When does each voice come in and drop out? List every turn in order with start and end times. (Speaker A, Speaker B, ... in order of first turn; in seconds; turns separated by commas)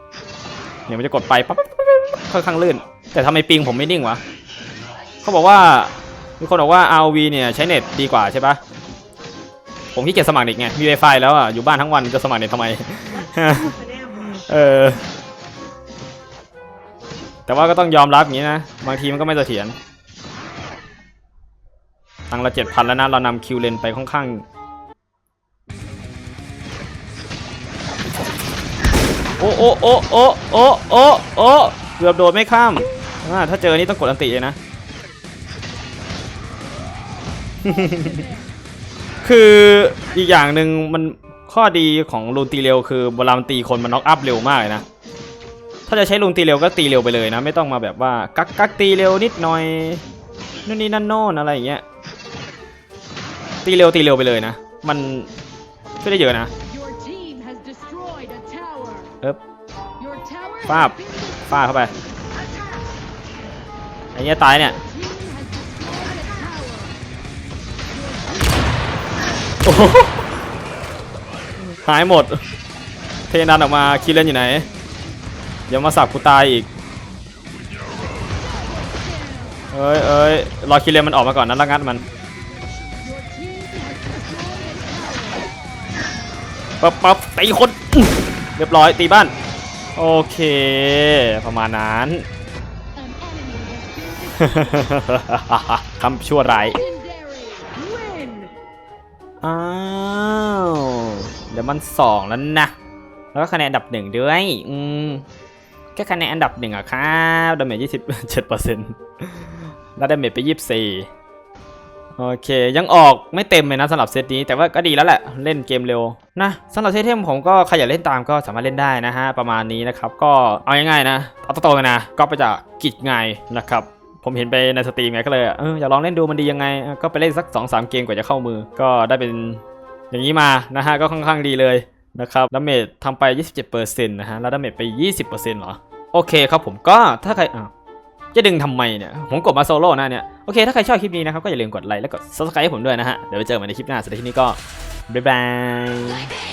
Speaker A: 0.9-4.2, Speaker A: 5.2-8.6, Speaker A: 9.9-15.0, Speaker A: 17.5-19.8, Speaker A: 22.3-24.4, Speaker A: 29.4-34.6, Speaker A: 37.6-38.2, Speaker B: 37.9-38.3, Speaker A: 39.2-44.8, Speaker A: 45.9-50.0, Speaker A: 50.6-51.8, Speaker A: 53.6-55.3, Speaker A: 56.0-56.5, Speaker B: 56.6-59.1, Speaker B: 60.0-61.3, Speaker A: 60.6-61.9, Speaker A: 64.1-64.8, Speaker B: 64.8-67.0, Speaker B: 67.9-68.7, Speaker A: 69.6-70.3, Speaker A: 71.7-72.4, Speaker A: 73.3-74.7, Speaker A: 75.7-76.7, Speaker B: 78.8-79.6, Speaker A: 79.7-82.0, Speaker B: 83.0-85.5, Speaker A: 86.8-89.3, Speaker A: 90.0-92.2, Speaker B: 93.0-94.9, Speaker A: 94.4-96.8, Speaker B: 96.8-98.5, Speaker A: 99.4-102.7, Speaker A: 103.3-105.2, Speaker A: 105.9-111.1, Speaker A: 112.2-137.7, Speaker A: 138.3-144.6, Speaker A: 145.1-146.3